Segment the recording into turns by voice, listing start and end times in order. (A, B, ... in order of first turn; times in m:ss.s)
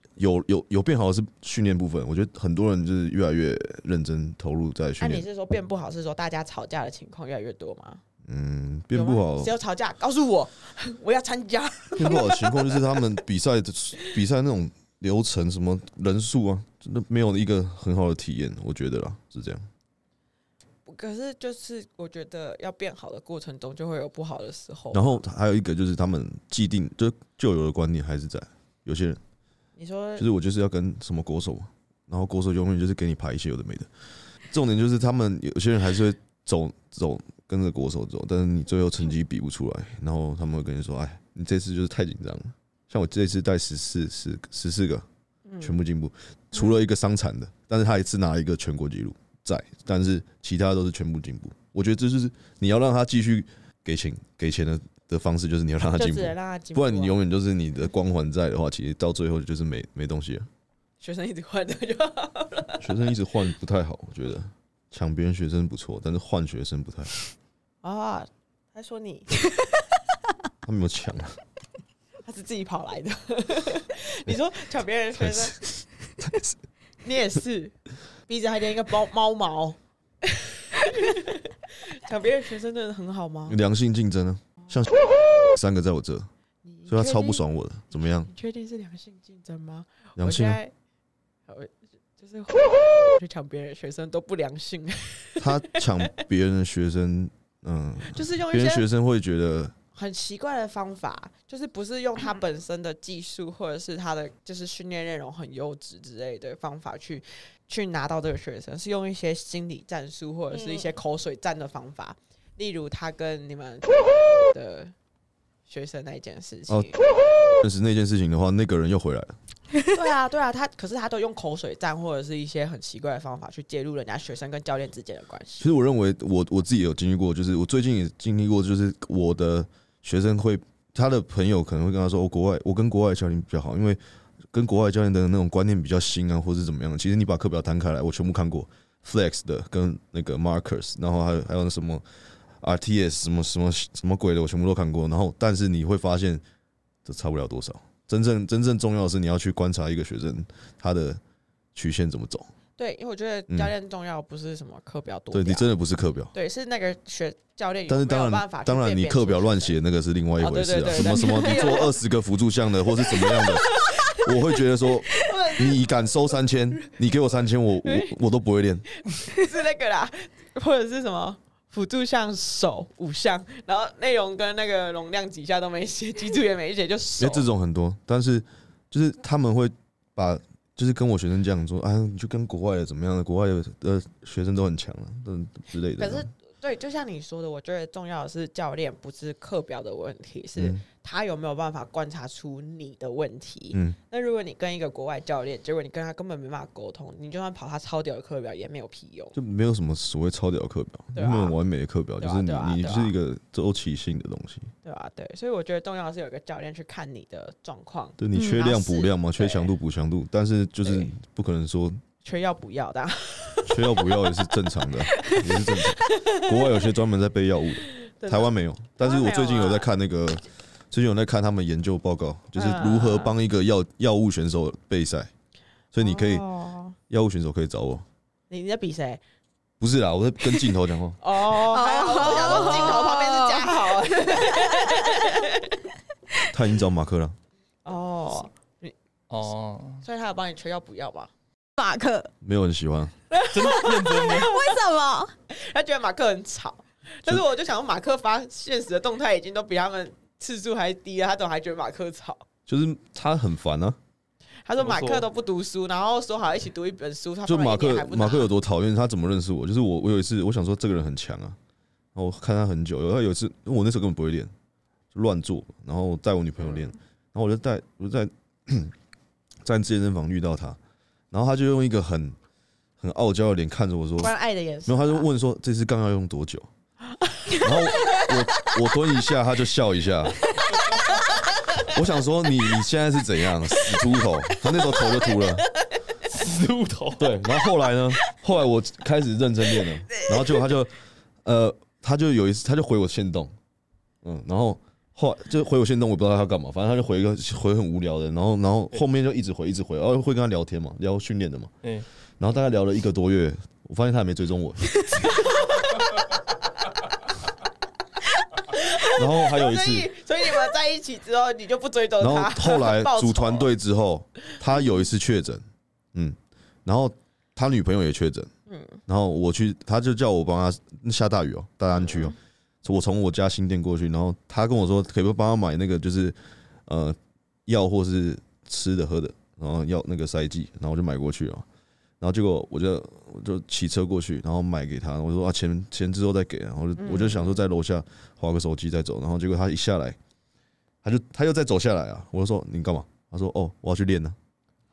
0:00.2-0:05.2 A
0:05.0-0:08.0 B
0:08.2-0:09.5 A
0:08.9-0:13.0 B
0:12.0-0:19.6 A
0:20.9-0:25.2 B
0:24.9-0:29.2 A
0:29.8-0:30.3 B
0:30.2-0:33.9 A
0:34.5-0:45.1 A
0:45.5-0:45.8 B
0:45.6-1:00.5 A
0:56.0-0:57.2 B
1:01.0-1:02.9 B
1:02.8-1:07.1 A
1:07.8-1:09.3 B
1:10.6-1:11.4 A
1:12.2-1:15.6 B
1:15.2-1:16.6 A
1:17.0-1:17.8 B
1:18.3-1:23.6 B
1:23.5-1:26.3 A
1:26.6-1:27.4 B
1:26.9-1:28.3 A
1:27.9-1:30.7 B
1:30.2-1:30.6 A
1:31.5-1:36.0 B
1:35.4-1:39.8 A
1:38.0-1:38.9 B
1:39.9-1:54.9 B
1:55.7-1:57.0 B
1:57.6-1:59.4 A
1:59.9-2:05.7 B
2:05.6-2:14.0 A
2:14.5-2:22.0 A
2:22.6-2:26.4 A
2:27.0-2:31.2 A
2:31.8-2:32.5 A
2:32.8-2:35.7 B
2:35.3-2:36.3 A
2:36.3-2:39.8 B
2:37.9-2:48.8 A
2:40.4-2:41.9 B
2:41.1-2:41.7 C
2:43.0-2:44.3 B
2:45.2-2:45.9 B
2:47.8-2:48.1 B
2:49.1-2:57.5 B
2:57.2-3:06.3 A
3:06.0-3:19.4 B
3:10.6-3:10.8 A
3:19.3-3:24.7 A
3:21.2-3:21.6 B
3:22.2-3:23.1 B
3:24.8-3:29.7 B
3:28.2-3:32.0 A
3:28.3-3:28.7 C
3:30.8-3:31.1 B
3:32.2-3:34.3 B
3:33.7-3:45.3 A
3:38.0-3:39.9 B
3:42.6-3:43.3 B
3:45.9-3:46.5 A
3:46.0-3:47.0 B
3:47.1-3:48.0 A
3:48.5-3:49.2 B
3:49.8-3:51.2 A
3:51.2-3:55.8 B
3:51.5-3:55.4 C
3:56.5-3:57.4 A
3:57.8-3:58.9 B
3:59.3-4:00.0 D
4:00.0-4:01.3 B
4:01.8-4:02.3 C
4:02.4-4:03.1 A
4:03.3-4:04.8 B
4:03.5-4:04.6 D
4:04.3-4:05.3 C
4:05.5-4:12.4 B
4:12.7-4:14.0 A
4:14.6-4:18.5 B
4:14.8-4:15.3 D
4:17.5-4:21.6 A
4:22.2-4:24.5 A
4:25.1-4:28.9 A
4:29.6-4:30.8 A
4:31.3-4:32.4 A
4:33.0-4:34.3 A
4:34.2-4:35.2 B
4:34.8-4:36.7 A
4:37.2-4:38.8 B
4:37.6-4:40.6 A
4:40.6-4:41.9 B
4:41.8-4:45.7 A
4:43.8-4:46.0 B
4:46.2-4:47.3 D
4:47.2-4:53.5 A
4:54.2-5:01.7 A
5:02.4-5:05.0 A
5:05.0-5:06.7 B
5:08.4-5:13.7 B
5:09.1-5:10.1 A
5:12.2-5:15.6 A
5:16.1-5:18.5 A
5:18.7-5:19.0 B
5:19.1-5:31.6 A
5:32.2-5:40.2 A
5:37.0-5:37.6 B
5:41.0-5:44.4 A